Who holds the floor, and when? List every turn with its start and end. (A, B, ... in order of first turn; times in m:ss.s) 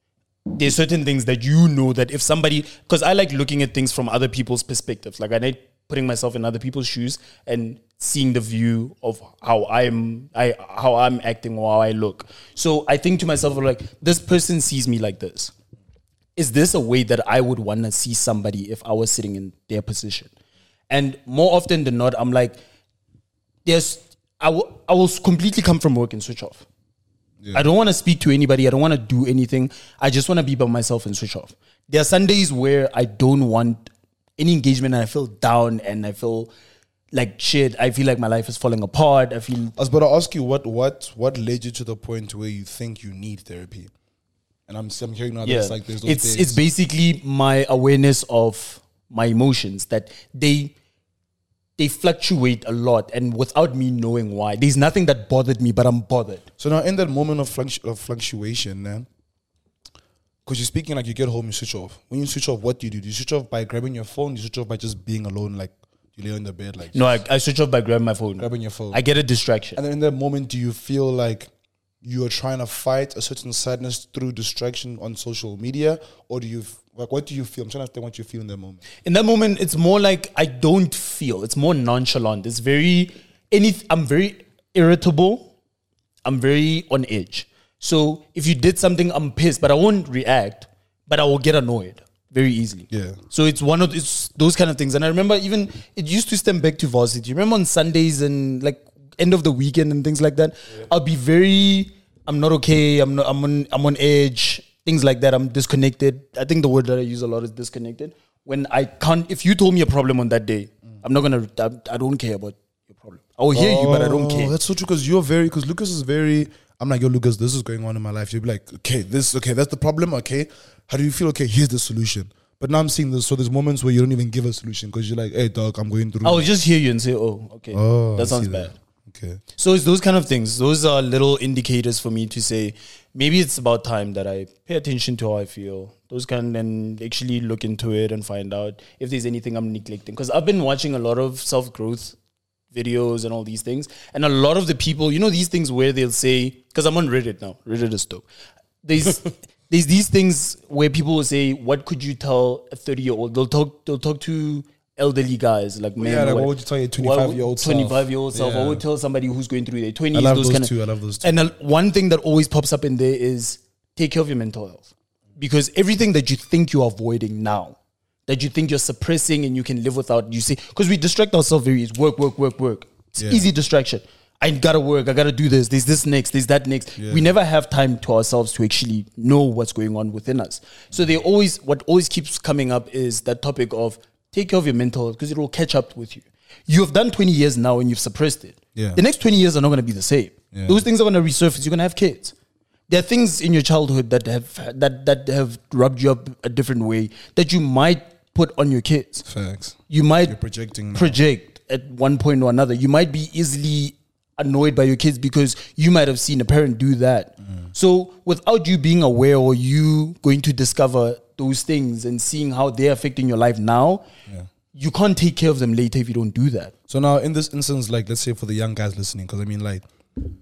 0:00.5-0:15.5 A
0:16.4-0:20.3 A
0:20.9-0:22.6 A
0:23.6-0:26.6 A
0:27.5-0:33.9 A
0:34.4-0:36.5 A
0:37.1-0:39.7 A
0:39.8-0:43.9 B
0:44.7-0:46.6 B
0:45.4-0:50.7 A
0:51.8-0:56.4 A
0:56.6-0:59.1 B
1:00.4-1:07.1 B
1:06.9-1:09.8 A
1:08.4-1:09.0 B
1:09.8-1:11.5 B
1:12.0-1:18.8 B
1:19.0-1:25.5 A
1:26.2-1:54.5 A
1:32.9-1:33.2 B
1:53.5-2:06.5 B
2:06.2-2:08.7 A
2:07.7-2:09.4 B
2:09.6-2:22.2 A
2:22.7-2:28.2 A
2:28.8-2:40.7 A
2:36.0-2:38.8 B
2:40.1-2:41.4 B
2:41.2-2:47.8 A
2:48.3-3:12.3 A
2:53.2-2:53.5 B
2:57.0-2:57.3 B
3:10.5-3:10.8 B
3:12.9-3:19.2 A
3:19.2-3:21.2 B
3:19.9-3:20.4 A
3:20.9-3:34.0 A
3:34.7-3:36.7 A
3:36.9-3:39.8 B